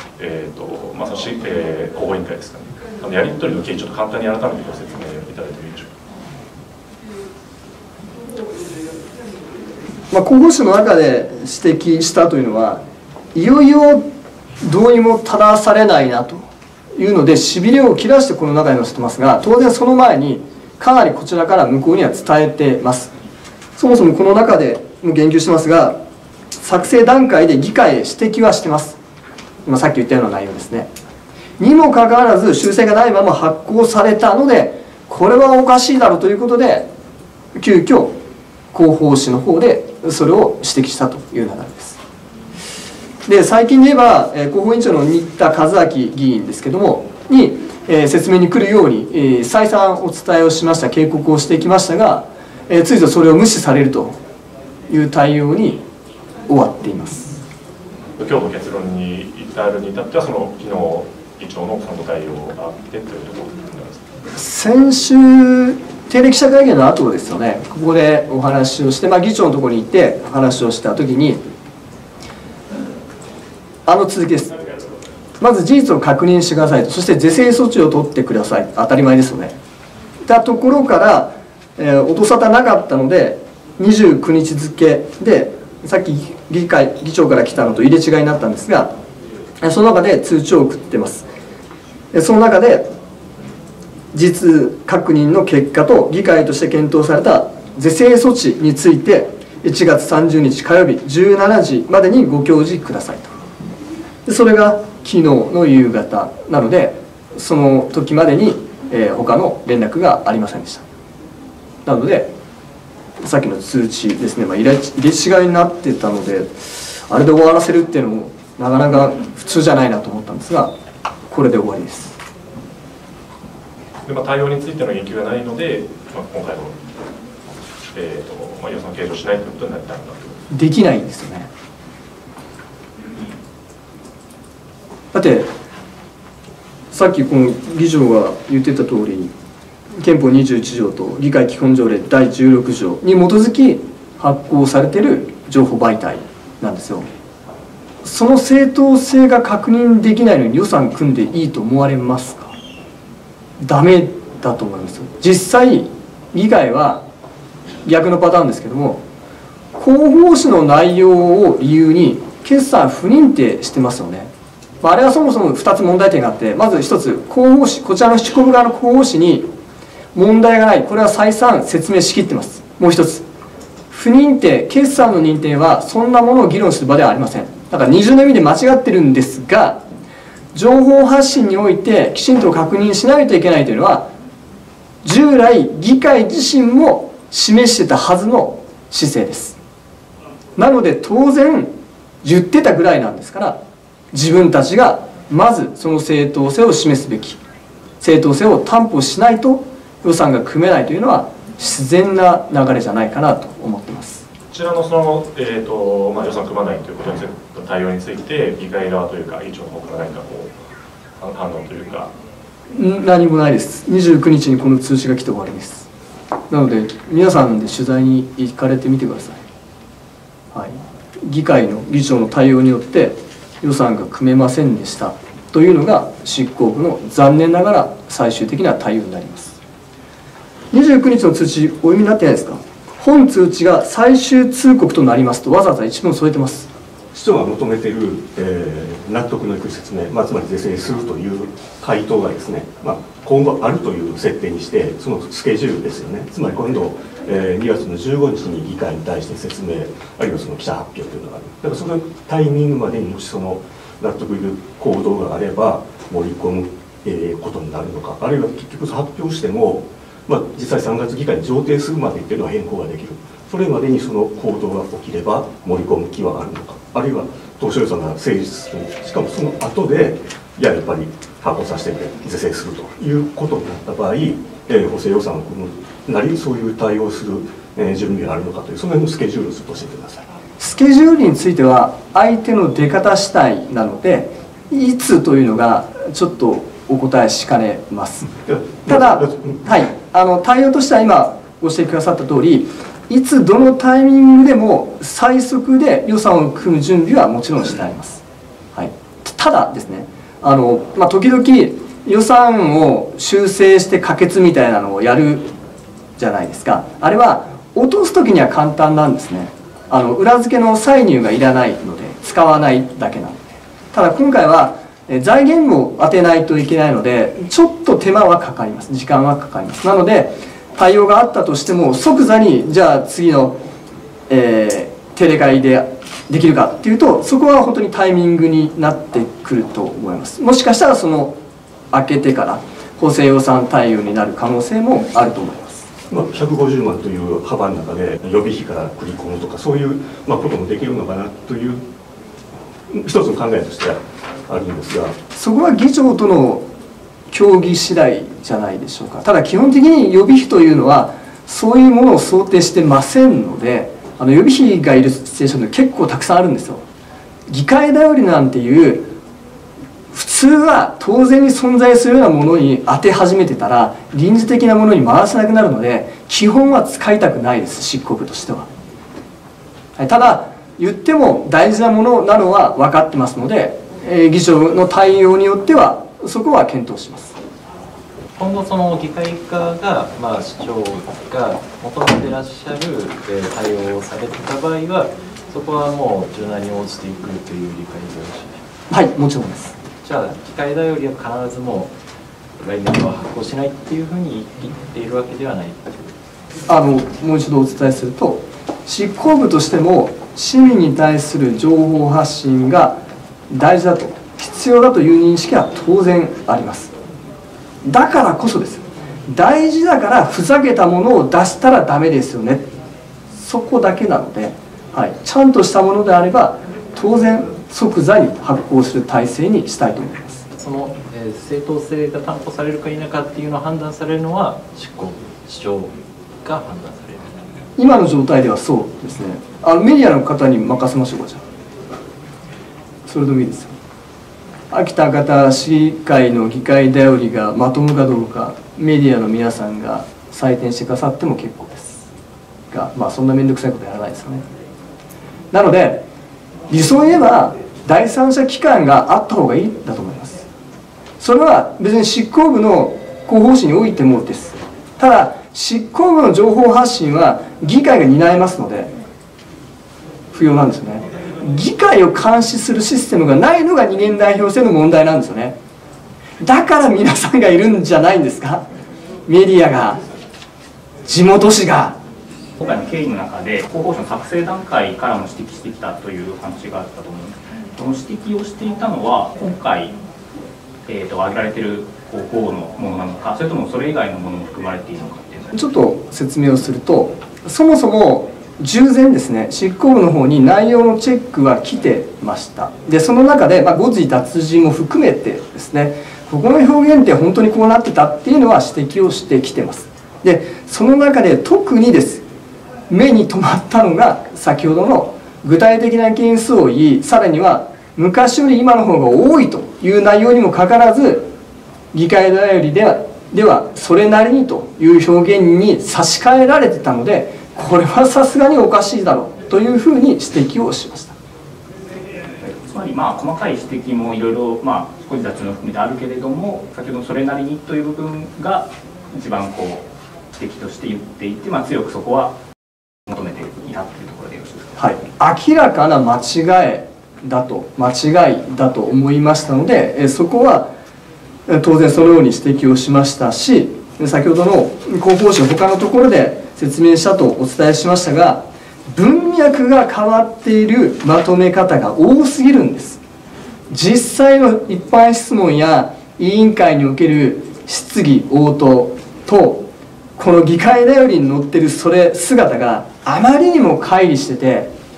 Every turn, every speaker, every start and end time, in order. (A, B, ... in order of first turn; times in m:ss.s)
0:00.2-0:05.9 A
0:10.1-0:12.8 B
0:13.3-0:14.0 B
0:14.6-0:16.4 B
0:17.0-0:23.1 B
0:23.8-0:26.0 B
0:26.6-0:29.0 B
0:29.6-0:30.9 B
0:31.6-0:36.9 B
0:37.5-0:38.1 B
0:38.7-0:42.0 B
0:43.2-0:54.2 B
0:54.9-0:55.8 B
0:56.5-0:57.4 B
0:58.2-1:04.0 A
1:04.3-1:11.4 B
1:13.8-1:14.6 B
1:15.4-1:19.5 B
1:20.2-1:28.9 B
1:29.6-1:31.3 B
1:32.1-1:32.9 B
1:34.1-1:43.3 B
1:44.2-1:50.8 B
1:51.8-1:52.3 B
1:53.2-2:00.7 B
2:01.3-2:02.2 B
2:04.0-2:06.8 A
2:07.9-2:10.4 A
2:10.5-2:11.5 B
2:15.1-2:15.5 B
2:16.9-2:19.3 B
2:20.0-2:27.1 B
2:28.0-2:32.5 B
2:33.6-2:37.0 B
2:37.8-2:39.0 B
2:39.7-2:44.3 B
2:44.8-2:49.5 B
2:50.1-2:53.2 B
2:53.9-2:59.8 B
3:00.5-3:04.1 B
3:05.0-3:09.6 B
3:10.6-3:11.7 B
3:12.2-3:13.6 B
3:14.1-3:17.4 B
3:18.0-3:24.2 B
3:24.5-3:30.5 A
3:31.2-3:32.1 A
3:32.7-3:35.9 B
3:36.5-3:39.4 B
3:40.5-3:49.6 B
3:50.7-3:56.7 B
3:57.1-4:40.3 C
4:40.6-4:48.3 B
4:48.4-4:49.6 C
4:48.8-4:58.2 B
4:58.7-5:05.5 B
5:06.2-5:23.6 B
5:24.3-5:31.4 B
5:31.9-5:35.9 B
5:36.1-5:41.8 C
5:42.9-5:45.2 C
5:45.3-5:46.6 B
5:47.3-5:56.8 B
5:57.5-5:59.1 B
6:00.1-6:08.7 B
6:10.0-6:17.4 B
6:18.3-6:28.6 D
6:28.9-6:29.7 B
6:30.0-6:31.9 D
6:32.6-6:36.1 D
6:36.7-6:43.0 B
6:43.5-6:46.9 B
6:47.8-6:52.7 B
6:53.3-7:00.4 B
7:00.6-7:07.6 D
7:07.8-7:11.4 B
7:13.0-7:13.7 B
7:14.7-7:22.1 B
7:22.7-7:24.4 B
7:25.5-7:26.0 B
7:26.7-7:30.4 B
7:31.2-7:38.9 B
7:40.3-7:45.6 B
7:46.4-7:48.6 B
7:49.3-7:50.0 B
7:51.0-7:52.0 B
7:52.6-8:00.0 E
8:00.8-8:05.6 E
8:05.5-8:22.2 B
8:22.9-8:31.3 B
8:31.9-8:41.2 B
8:42.4-8:52.4 E
8:53.1-8:54.7 E
8:54.8-9:00.7 B
9:01.5-9:13.0 B
9:13.7-9:24.7 B